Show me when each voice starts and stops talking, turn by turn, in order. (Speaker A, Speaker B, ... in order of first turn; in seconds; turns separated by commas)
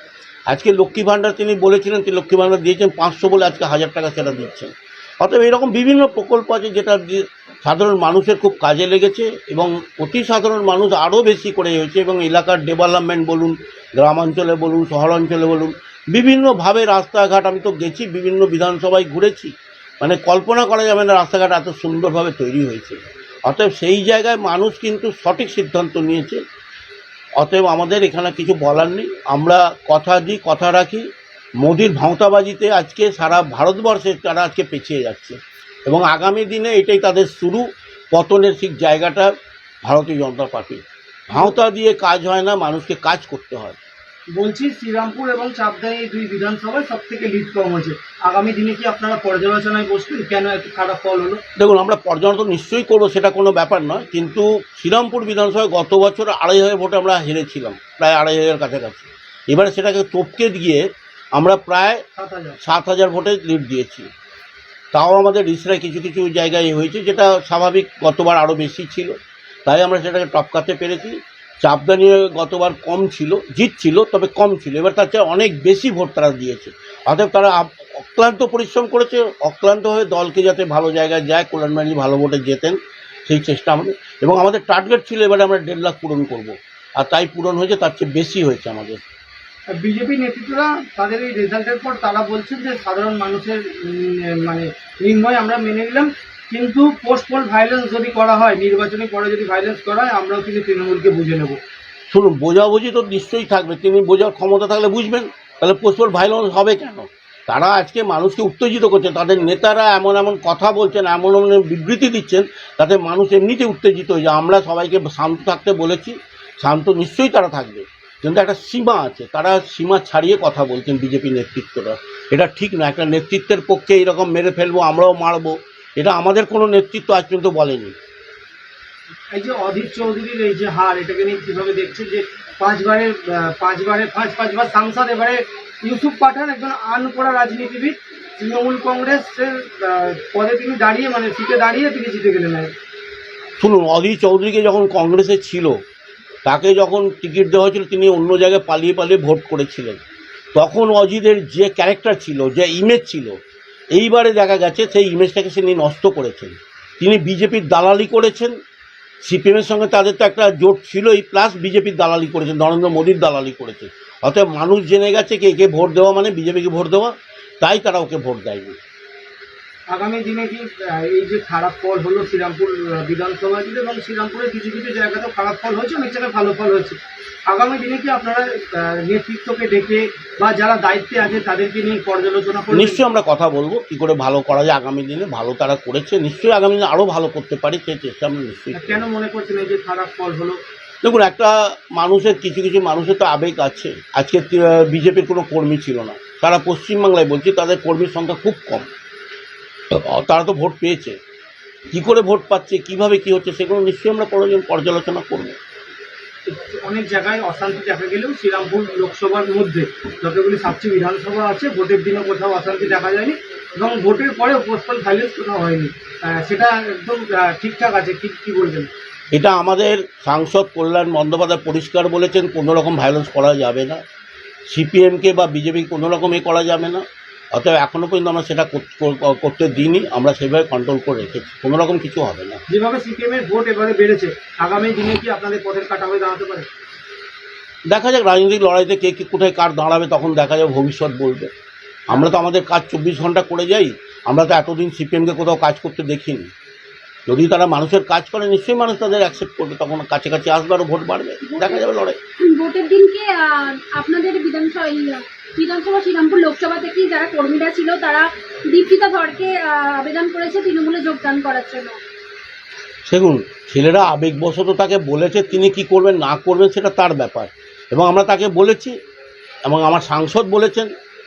Speaker A: 0.5-26.4, Speaker A: 27.4-31.1, Speaker A: 31.6-39.3, Speaker A: 39.9-43.8, Speaker B: 44.3-51.4, Speaker A: 51.6-60.8, Speaker A: 61.4-62.0, Speaker B: 62.2-62.6, Speaker A: 62.6-64.1, Speaker A: 64.9-89.0, Speaker B: 89.8-101.6, Speaker A: 102.1-128.0, Speaker B: 129.3-142.7, Speaker A: 143.6-145.8, Speaker A: 146.4-150.0, Speaker A: 150.5-153.4, Speaker A: 153.9-158.5, Speaker A: 159.2-168.8, Speaker B: 169.9-183.1, Speaker A: 182.7-189.0, Speaker B: 188.7-190.6, Speaker A: 191.0-198.9, Speaker A: 199.9-201.2, Speaker A: 201.9-205.6, Speaker B: 206.5-218.9, Speaker A: 219.3-224.0, Speaker A: 224.7-232.6, Speaker B: 232.7-236.7, Speaker A: 237.9-241.5, Speaker A: 242.1-246.5, Speaker A: 247.3-252.2, Speaker C: 251.5-251.9, Speaker C: 252.4-262.0, Speaker A: 263.1-268.9, Speaker A: 269.7-270.9